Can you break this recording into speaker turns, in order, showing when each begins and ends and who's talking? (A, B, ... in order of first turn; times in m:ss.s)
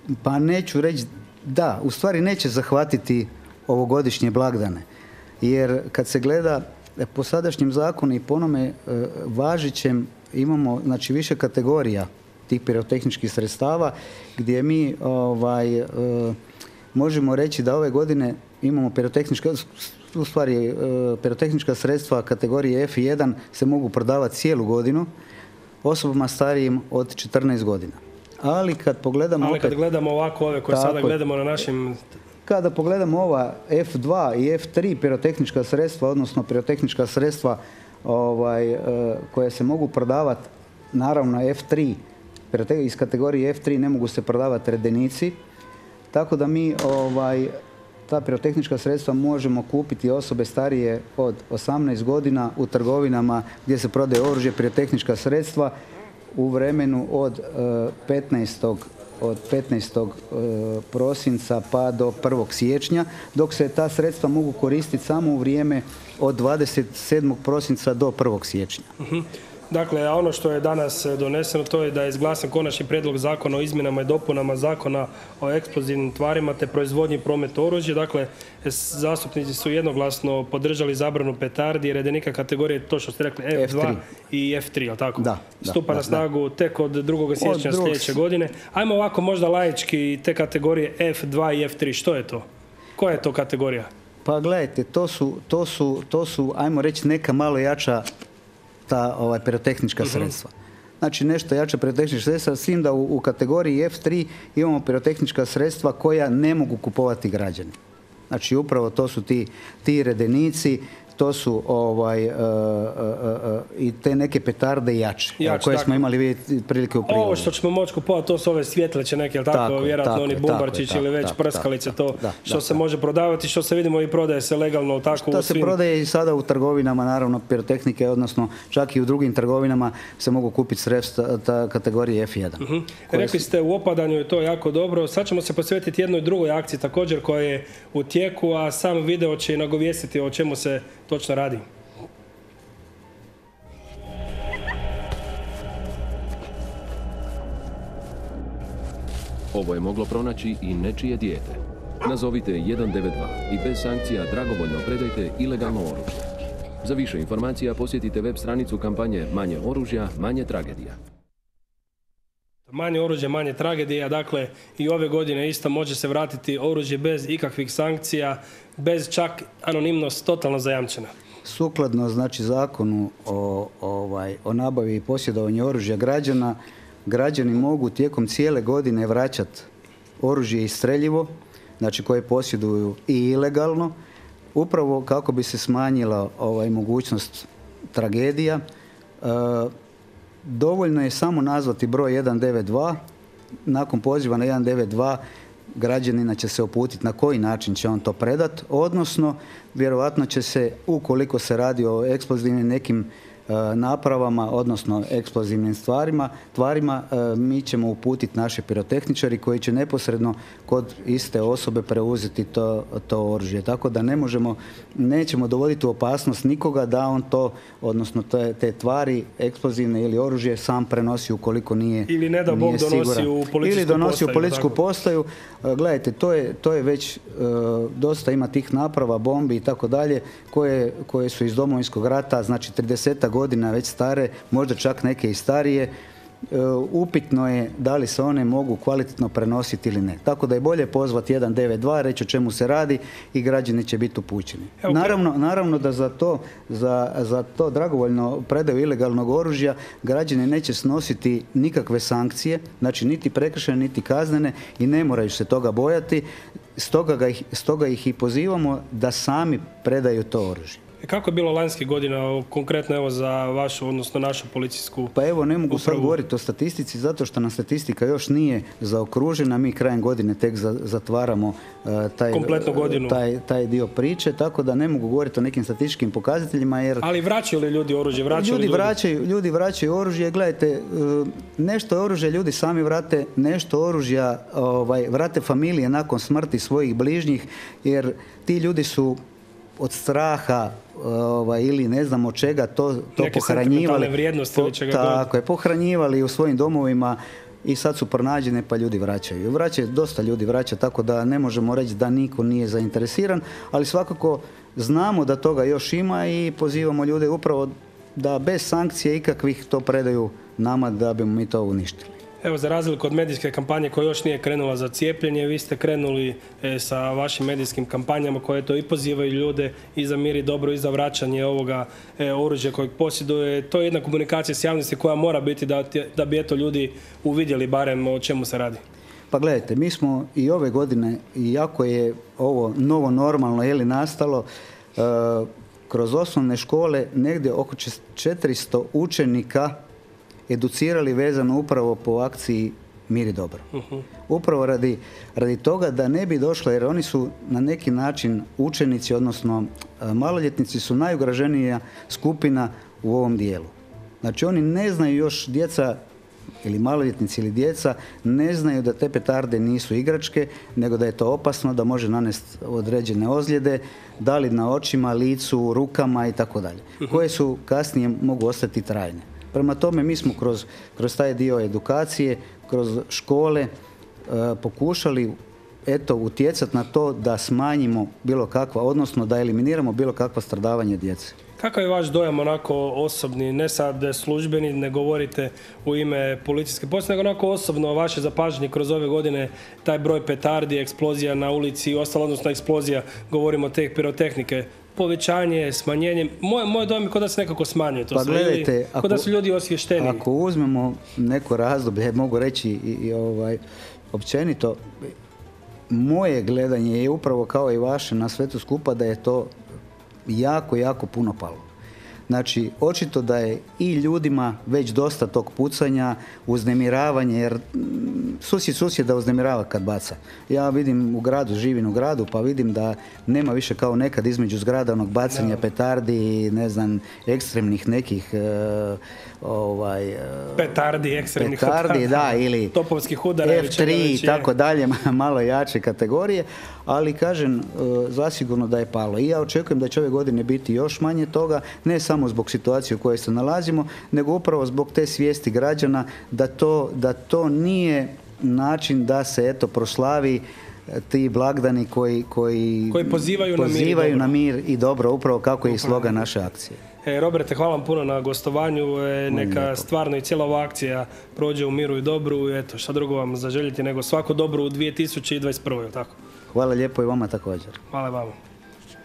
0:00.2-0:04.8 A
0:05.4-0:16.4 A
0:16.9-0:25.1 A
0:25.8-0:29.8 A
0:29.4-0:32.0 B
0:30.7-0:31.2 A
0:32.4-0:45.4 A
0:46.1-0:47.6 A
0:48.1-0:55.7 A
0:56.4-1:08.9 A
1:09.0-1:32.4 B
1:23.5-1:24.0 A
1:25.2-1:26.2 A
1:27.4-1:28.2 A
1:33.0-1:33.9 B
1:34.2-1:38.0 A
1:38.9-1:47.8 A
1:40.0-1:40.3 B
1:48.3-1:57.5 A
1:55.4-1:56.1 B
1:57.0-2:05.8 B
1:59.5-2:02.8 A
2:05.1-2:13.5 A
2:12.6-2:21.6 B
2:29.5-2:41.0 C
2:42.7-2:51.1 B
2:51.4-2:59.7 A
3:00.2-3:04.0 A
3:04.5-3:08.6 A
3:09.2-3:09.7 A
3:10.4-3:13.0 A
3:13.6-3:15.2 A
3:15.7-3:55.9 A
3:42.1-3:44.8 B
3:56.5-4:20.8 A
4:04.8-4:05.2 B
4:21.0-4:25.1 B
4:25.1-4:37.0 A
4:25.7-4:26.2 B
4:32.3-4:33.2 B
4:37.0-4:38.9 B
4:38.3-4:49.2 A
4:49.8-5:12.1 A
4:53.2-4:55.2 B
5:12.4-5:28.8 B
5:29.3-5:39.8 A
5:40.5-5:43.6 A
5:43.8-5:44.0 B
5:44.3-5:56.0 A
5:56.6-6:13.7 A
6:14.3-6:21.3 A
6:21.6-6:40.2 B
6:38.1-6:39.3 A
6:40.0-6:43.6 A
6:44.1-6:44.8 A
6:45.9-6:49.5 A
6:50.3-6:51.6 A
6:52.3-7:12.8 A
7:05.3-7:05.6 B
7:10.6-7:14.5 B
7:13.4-7:36.8 A
7:32.9-7:34.3 B
7:35.6-7:36.3 B
7:37.0-7:46.1 B
7:39.3-7:39.9 A
7:46.5-7:47.8 A
7:47.9-7:48.3 B